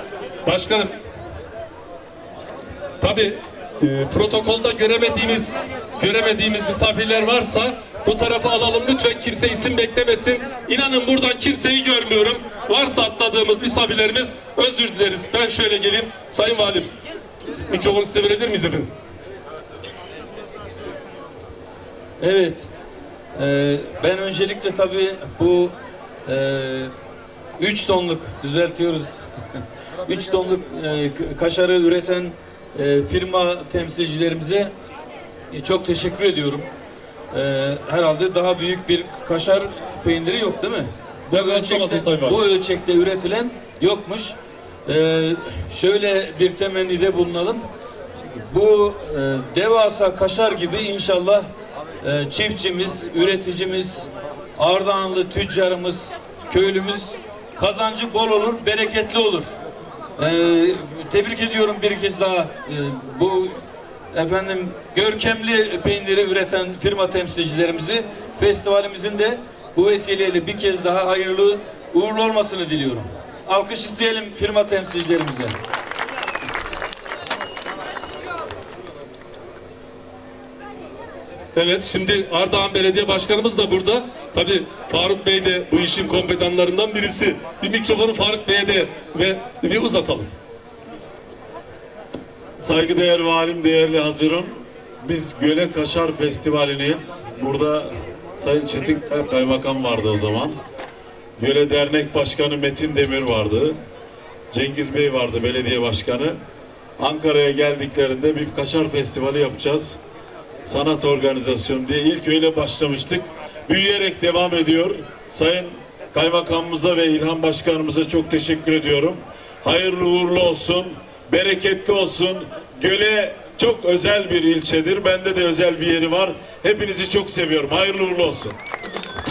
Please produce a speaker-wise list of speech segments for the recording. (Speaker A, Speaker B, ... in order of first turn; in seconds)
Speaker A: 0.4-0.9, 3.0-16.9, 17.4-18.9, 41.3-42.4, 81.5-90.3
Speaker B: 22.2-22.7, 23.4-25.7, 26.2-26.9, 27.6-34.7, 35.5-36.7, 37.3-47.7, 48.2-51.5, 52.0-59.5, 60.2-63.6, 64.1-75.6
Speaker C: 92.6-100.6, 101.4-103.8, 104.5-106.4, 107.0-110.0, 110.7-128.6